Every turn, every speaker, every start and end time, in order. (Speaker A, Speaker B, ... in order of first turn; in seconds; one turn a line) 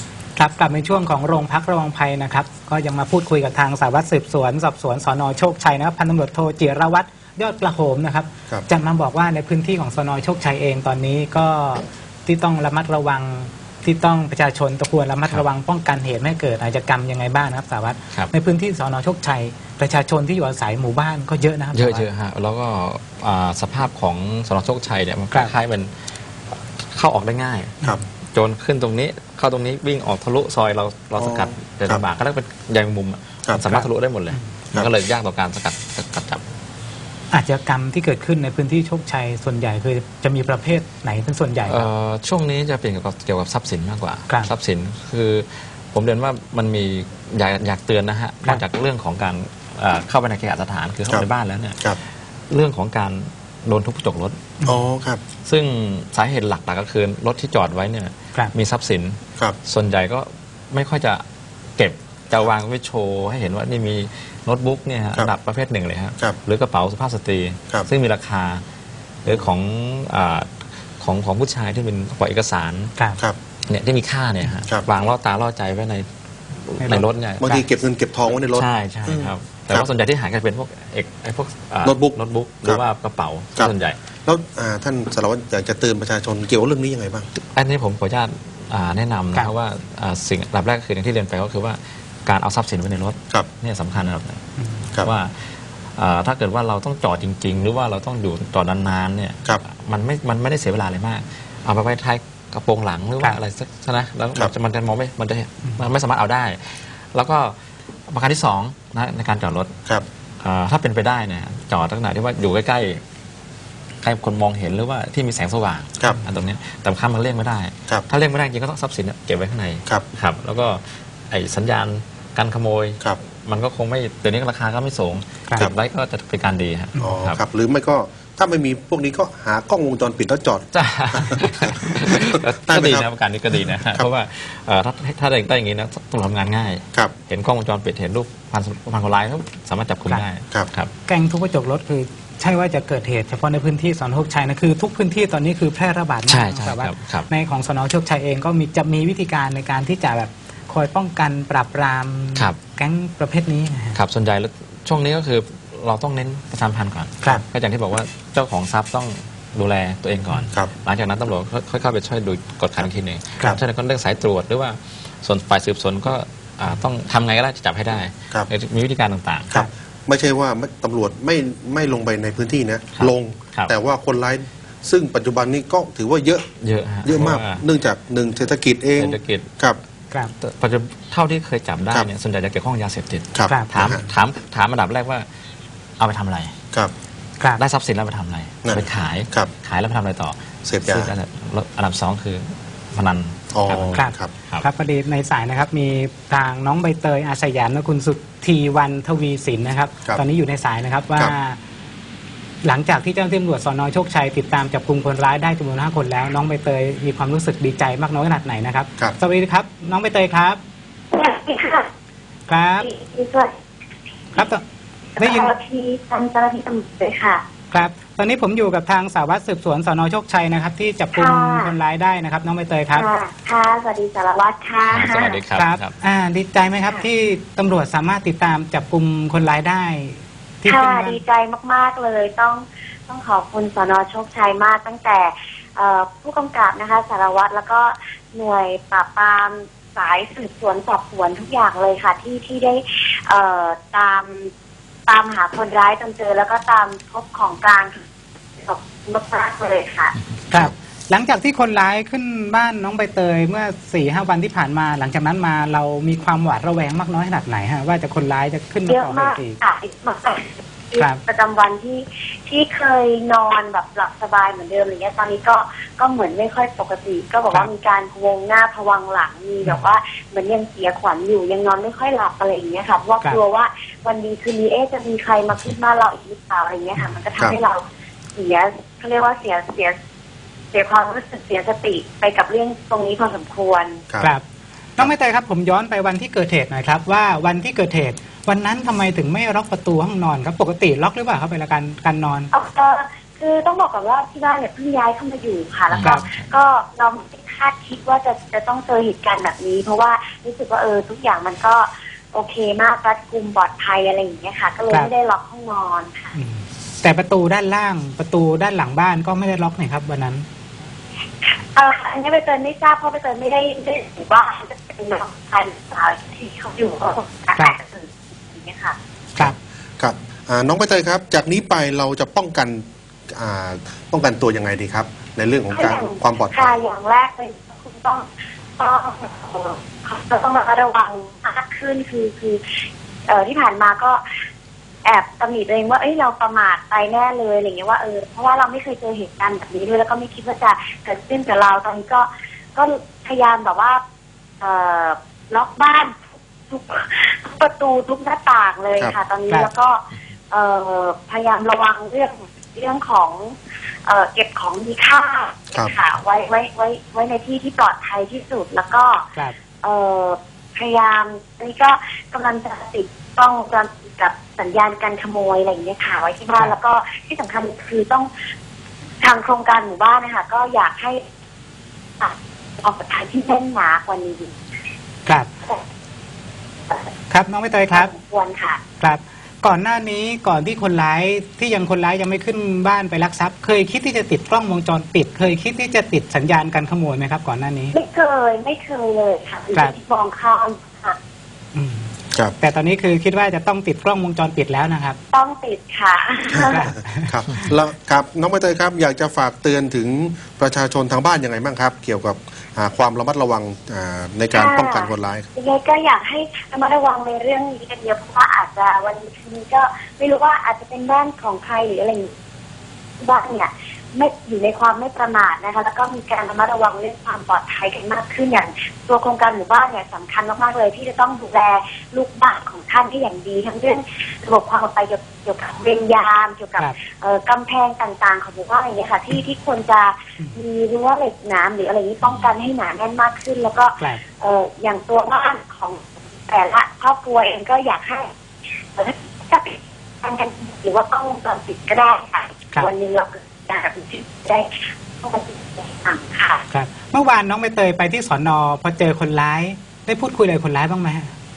Speaker A: 0.4-22.1
Speaker B: 21.7-36.4
Speaker C: 31.2-32.0
Speaker A: 33.7-34.4
Speaker A: 37.3-41.9
Speaker B: 41.7-51.9
Speaker B: 52.5-54.6
Speaker C: 54.6-55.2
Speaker B: 55.4-61.2
Speaker B: 61.8-68.6
Speaker B: 69.2-72.9
Speaker A: 73.0-73.2
Speaker B: 73.7-77.5
Speaker A: 76.8-77.6
Speaker C: 77.4-79.9
Speaker B: 78.5-84.0
Speaker C: 81.8-82.8
Speaker C: 84.3-87.3
Speaker B: 87.4-94.4
Speaker A: 94.6-94.8
Speaker B: 95.0-107.6
Speaker B: 108.1-109.7
Speaker B: 110.4-113.0
Speaker B: 114.0-127.4
Speaker C: 127.0-133.1
Speaker B: 130.7-140.9
Speaker C: 133.8-134.1
Speaker A: 141.1-154.0
Speaker B: 146.3-147.3
Speaker B: 153.9-169.6
Speaker C: 169.5-176.5
Speaker B: 173.0-173.7
Speaker B: 176.6-177.6
Speaker C: 177.0-179.8
Speaker B: 179.0-179.5
Speaker B: 180.4-185.3
Speaker C: 183.3-184.0
Speaker B: 186.0-186.6
Speaker B: 187.6-194.7
Speaker C: 188.7-189.5
Speaker C: 190.7-191.1
Speaker C: 193.5-194.3
Speaker A: 193.9-201.6
Speaker A: 202.6-210.6
Speaker D: 211.1-211.9
Speaker A: 212.5-212.9
Speaker D: 212.8-213.5
Speaker A: 214.4-214.6
Speaker D: 215.2-217.4
Speaker A: 215.2-215.5
Speaker A: 217.7-223.1
Speaker D: 221.2-221.7
Speaker D: 222.9-225.4
Speaker B: 224.9-225.9
Speaker A: 225.6-231.2
Speaker D: 230.7-244.5
Speaker D: 245.1-248.0
Speaker D: 248.6-250.1
Speaker A: 250.5-259.6
Speaker D: 258.9-277.8
Speaker D: 278.4-280.0
Speaker D: 280.7-284.0
Speaker A: 285.0-292.5
Speaker D: 292.5-306.3
Speaker B: 295.9-296.5
Speaker A: 306.4-310.4
Speaker D: 311.5-319.0
Speaker C: 319.4-326.8
Speaker D: 325.7-332.6
Speaker D: 333.3-334.2
Speaker D: 335.1-344.0
Speaker D: 344.6-346.2
Speaker D: 346.7-359.3
Speaker D: 359.8-368.3
Speaker D: 369.2-371.2
Speaker D: 372.2-374.5
Speaker A: 377.3-378.1
Speaker D: 377.9-378.8
Speaker A: 379.0-387.9
Speaker D: 387.9-391.2
Speaker A: 391.7-395.2
Speaker D: 395.3-396.9
Speaker C: 396.5-405.5
Speaker A: 396.7-397.3
Speaker D: 404.5-412.3
Speaker D: 413.2-438.3
Speaker B: 432.2-432.5
Speaker D: 438.9-446.6
Speaker A: 446.7-451.3